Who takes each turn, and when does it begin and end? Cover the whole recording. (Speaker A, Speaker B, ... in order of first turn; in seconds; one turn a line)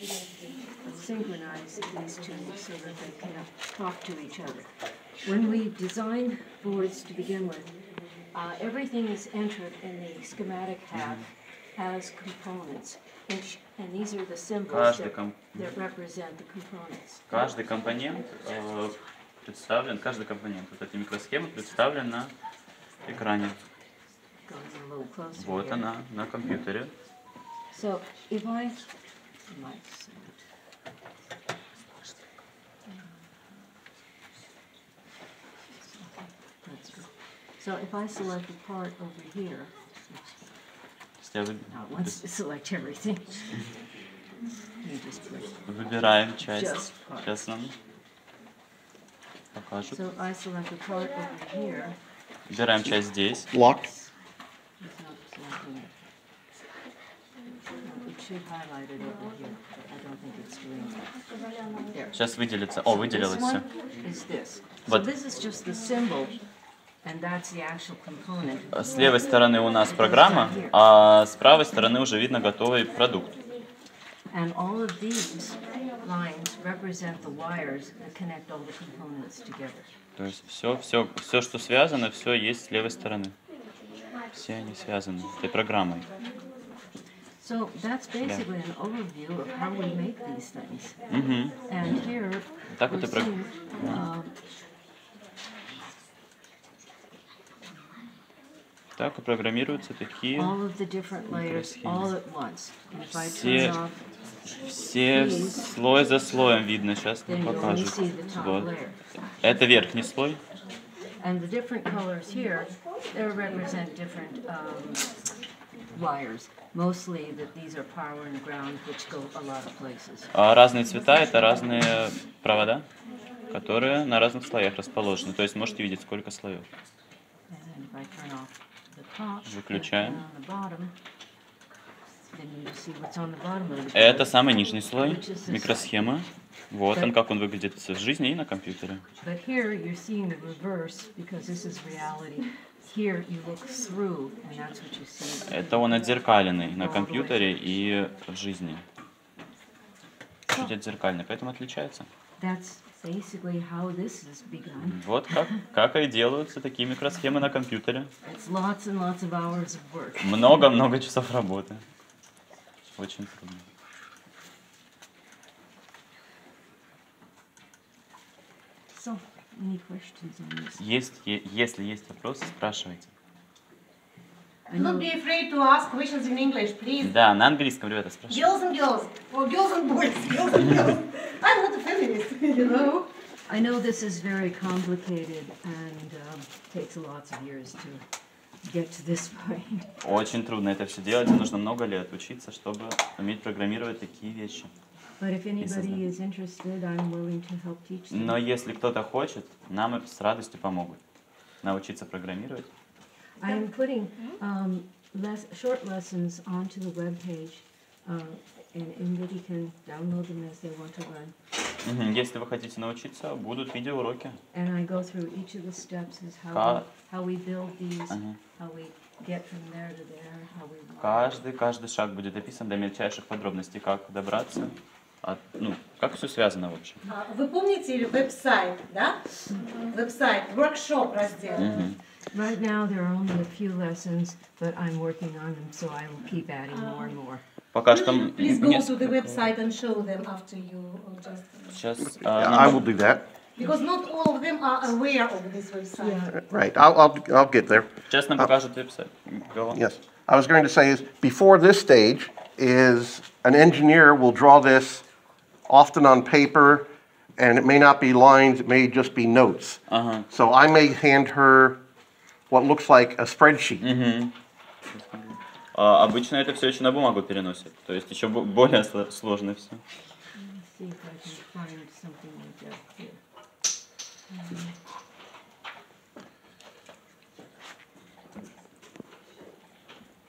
Speaker A: 0.8-7.8
Speaker A: 8.3-17.3
Speaker B: 10.9-11.2
Speaker B: 14.7-15.7
Speaker B: 17.3-22.3
Speaker B: 23.1-23.6
Speaker A: 24.5-25.9
Speaker B: 25.4-26.9
Speaker A: 27.7-28.9
Speaker A: 29.5-30.4
Speaker A: 35.8-40.3
Speaker B: 41.2-42.1
Speaker A: 41.7-43.6
Speaker A: 44.8-45.6
Speaker B: 45.7-47.8
Speaker A: 46.4-47.4
Speaker B: 49.5-50.0
Speaker A: 49.9-52.0
Speaker B: 52.5-53.5
Speaker C: 53.5-53.9
Speaker A: 54.8-55.9
Speaker A: 57.8-62.1
Speaker B: 62.1-63.6
Speaker A: 62.9-66.4
Speaker A: 67.0-69.2
Speaker B: 68.7-73.3
Speaker A: 69.8-70.8
Speaker A: 74.3-79.9
Speaker B: 80.2-83.3
Speaker B: 84.3-86.1
Speaker A: 87.4-91.1
Speaker B: 91.1-91.6
Speaker A: 91.7-94.3
Speaker B: 92.7-94.0
Speaker B: 99.0-100.6
Speaker A: 100.3-104.0
Speaker B: 101.3-102.1
Speaker B: 103.2-103.8
Speaker B: 104.6-108.7
Speaker A: 105.1-105.7
Speaker A: 107.3-109.0
Speaker B: 109.4-110.4
Speaker A: 111.2-115.2
Speaker A: 115.9-120.3
Speaker B: 120.3-122.9
Speaker B: 123.5-126.7
Speaker A: 127.5-130.9
Speaker B: 129.5-130.2
Speaker A: 132.3-136.0
Speaker B: 133.9-139.0
Speaker A: 139.2-146.0
Speaker B: 145.5-148.8
Speaker A: 146.7-147.5
Speaker B: 150.5-152.1
Speaker A: 152.4-155.1
Speaker B: 154.8-158.1
Speaker A: 158.2-160.6
Speaker B: 160.2-161.8
Speaker B: 162.9-163.7
Speaker A: 168.9-170.8
Speaker B: 170.8-173.1
Speaker A: 174.7-175.1
Speaker D: 174.7-177.1
Speaker B: 177.0-178.5
Speaker D: 178.3-183.1
Speaker A: 183.5-188.0
Speaker A: 188.6-189.9
Speaker B: 190.0-194.7
Speaker A: 195.2-198.4
Speaker B: 195.6-196.0
Speaker B: 198.1-201.0
Speaker B: 201.6-202.7
Speaker A: 203.4-211.3
Speaker B: 211.8-214.4
Speaker A: 214.5-221.4
Speaker B: 216.5-216.9
Speaker B: 218.1-218.4
Speaker B: 221.0-227.0
Speaker D: 227.1-231.9
Speaker B: 231.6-232.0
Speaker A: 232.3-237.4
Speaker B: 237.7-239.4
Speaker D: 237.9-241.8
Speaker B: 241.7-242.9
Speaker C: 242.2-243.2
Speaker D: 243.6-246.3
Speaker A: 246.0-246.5
Speaker C: 246.5-248.5
Speaker B: 248.1-249.8
Speaker C: 249.7-255.0
Speaker C: 255.7-256.9
Speaker C: 257.4-261.8
Speaker B: 259.9-260.3
Speaker C: 262.5-263.8
Speaker B: 263.8-264.3
Speaker B: 264.9-269.8
Speaker A: 270.4-273.2
Speaker A: 274.3-274.7